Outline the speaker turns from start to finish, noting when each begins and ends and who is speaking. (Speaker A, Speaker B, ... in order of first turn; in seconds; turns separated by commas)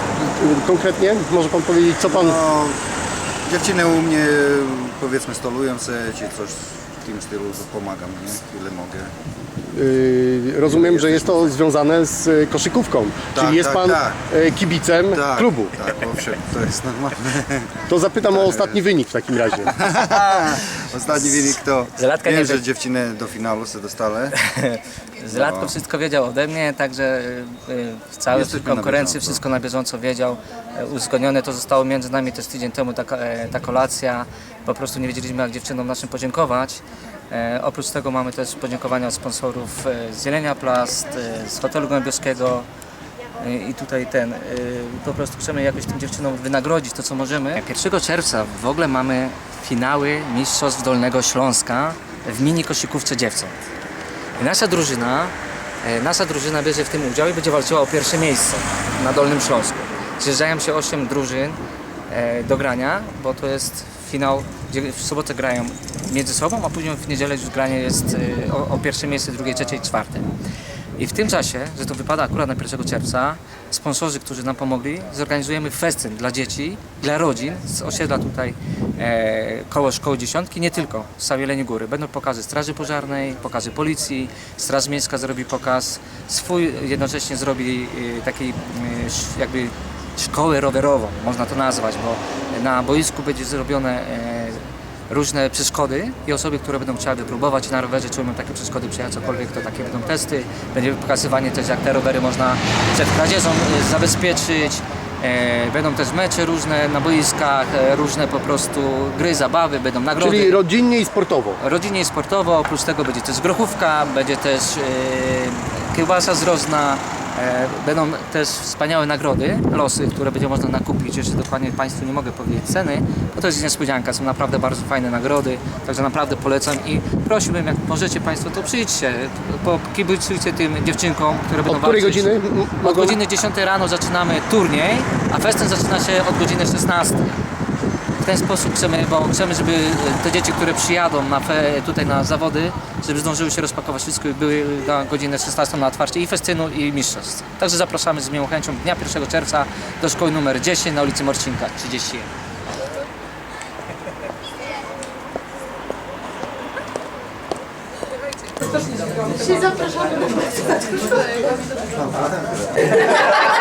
Speaker A: 0.2-2.4, Speaker B: 2.0-2.8, Speaker B: 3.5-9.1, Speaker A: 9.7-15.8, Speaker B: 10.7-11.5, Speaker B: 13.3-14.2, Speaker B: 15.1-18.8, Speaker A: 17.9-19.7, Speaker B: 19.7-24.4, Speaker C: 21.9-22.6, Speaker C: 24.3-42.7, Speaker B: 25.3-25.8, Speaker B: 28.3-29.4, Speaker C: 43.4-53.6, Speaker C: 54.4-61.6, Speaker C: 62.1-70.3, Speaker C: 71.0-110.6, Speaker A: 110.2-111.6, Speaker C: 111.6-137.3, Speaker A: 131.7-133.2, Speaker C: 138.2-152.3, Speaker B: 161.9-163.1